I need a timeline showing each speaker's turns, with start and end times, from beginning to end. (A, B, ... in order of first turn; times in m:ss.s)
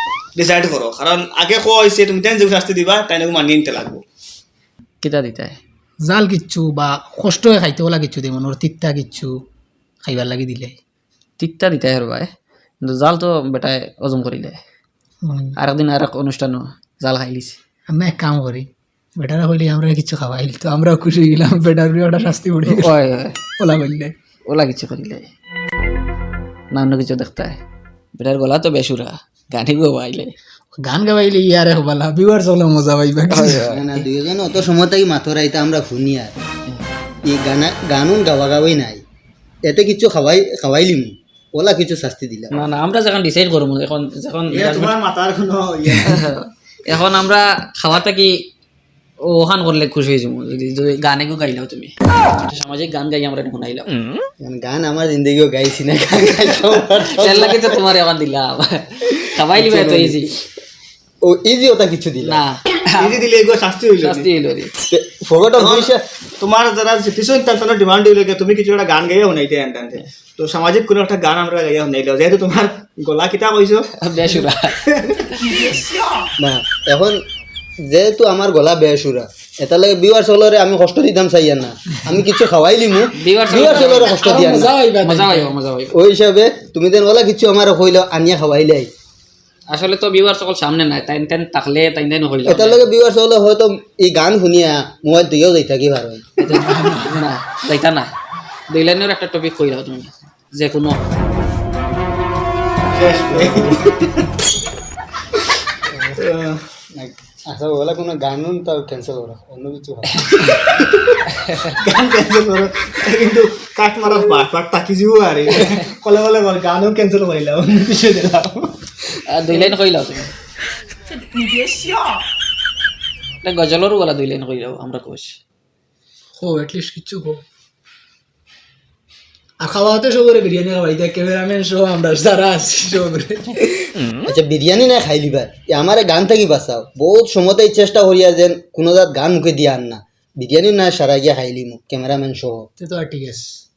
0:00.4-0:04.0 A
0:05.0-0:05.6 B
0:06.0-0:09.4 C
0:10.0-0:10.8 C
0:11.4-0:12.3 B
0:12.8-0:14.6 B
0:15.2-0:15.5 C
0:15.6-0:17.6 B
0:17.9-0:22.9 C
0:22.6-0:23.4 B
0:23.6-0:24.1 C
0:24.5-0:25.3 B
0:26.7-0:27.6 B
0:28.1-0:30.3 B
0:30.8-0:33.8 C
0:33.3-0:34.0 B
0:33.4-0:36.3 D
0:37.2-0:39.0 D
0:39.6-0:42.7 D
0:42.5-0:45.0 B
0:44.5-0:46.3 A
0:45.9-0:48.5 B
0:49.2-0:53.9 B
0:54.4-0:57.8 D
0:57.0-1:00.3 B
0:59.5-1:00.2 D
1:01.2-1:02.4 D
1:02.2-1:03.2 B
1:03.0-1:04.3 A
1:04.0-1:04.7 B
1:04.8-1:06.0 D
1:05.6-1:13.9 A
1:14.0-1:14.8 B
1:14.8-1:15.7 A
1:16.4-1:17.2 D
1:17.8-1:24.8 D
1:23.2-1:25.9 B
1:23.4-1:25.5 C
1:25.9-1:28.9 D
1:29.7-1:32.8 B
1:32.4-1:36.2 D
1:36.4-1:38.1 B
1:36.4-1:37.2 C
1:38.7-1:41.0 B
1:42.9-1:44.2 A
1:43.4-1:43.8 D
1:45.9-1:46.2 D
1:46.2-1:46.6 A
1:46.9-1:50.2 D
1:50.2-1:50.5 B
1:50.5-1:51.2 A
1:51.4-1:51.8 B
1:51.8-1:58.9 A
1:59.2-2:00.3 B
2:01.4-2:02.0 C
2:03.4-2:05.4 B
2:06.4-2:07.4 C
2:09.6-2:13.7 C
2:14.2-2:22.7 D
2:22.8-2:23.6 C